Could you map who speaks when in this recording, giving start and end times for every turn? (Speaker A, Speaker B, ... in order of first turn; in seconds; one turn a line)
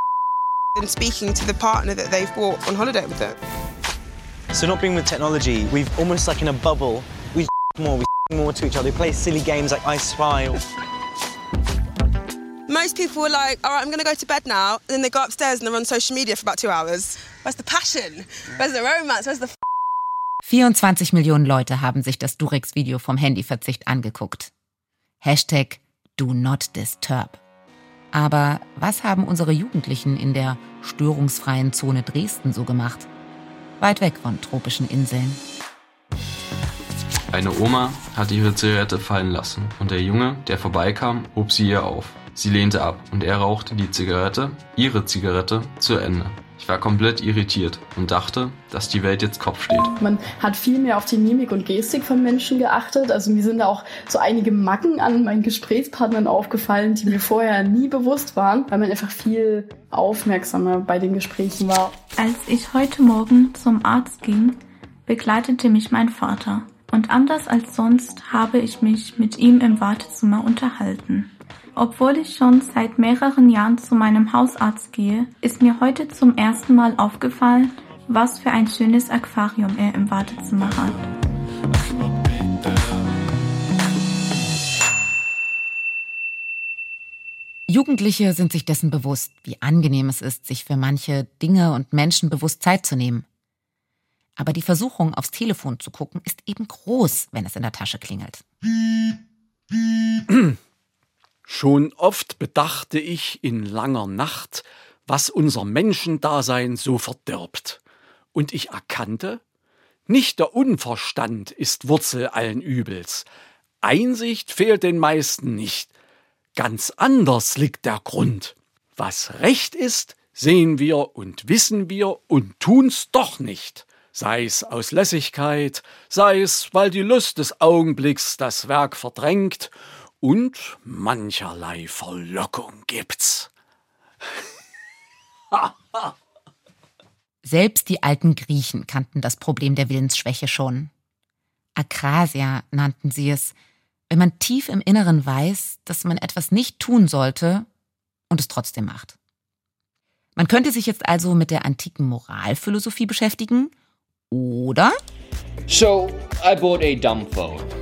Speaker A: 0.8-3.4
Speaker B: 4.5-10.6
Speaker A: 12.7-19.5
Speaker C: 20.4-24.5
Speaker C: 25.2-27.4
Speaker C: 28.1-33.1
Speaker C: 33.8-35.4
Speaker D: 37.3-49.9
Speaker E: 50.0-62.0
Speaker F: 62.2-81.1
Speaker C: 87.7-93.2
Speaker C: 94.4-98.4
Speaker G: 100.3-100.6
Speaker G: 101.5-107.8
Speaker G: 108.3-109.4
Speaker G: 110.1-113.3
Speaker G: 113.8-115.9
Speaker G: 116.6-133.5
Speaker C: 137.4-140.9
Speaker C: 141.8-143.5
Speaker C: 144.1-147.7
Speaker C: 148.3-149.2
Speaker C: 150.4-153.7
Speaker C: 154.3-154.9
Speaker H: 155.7-157.7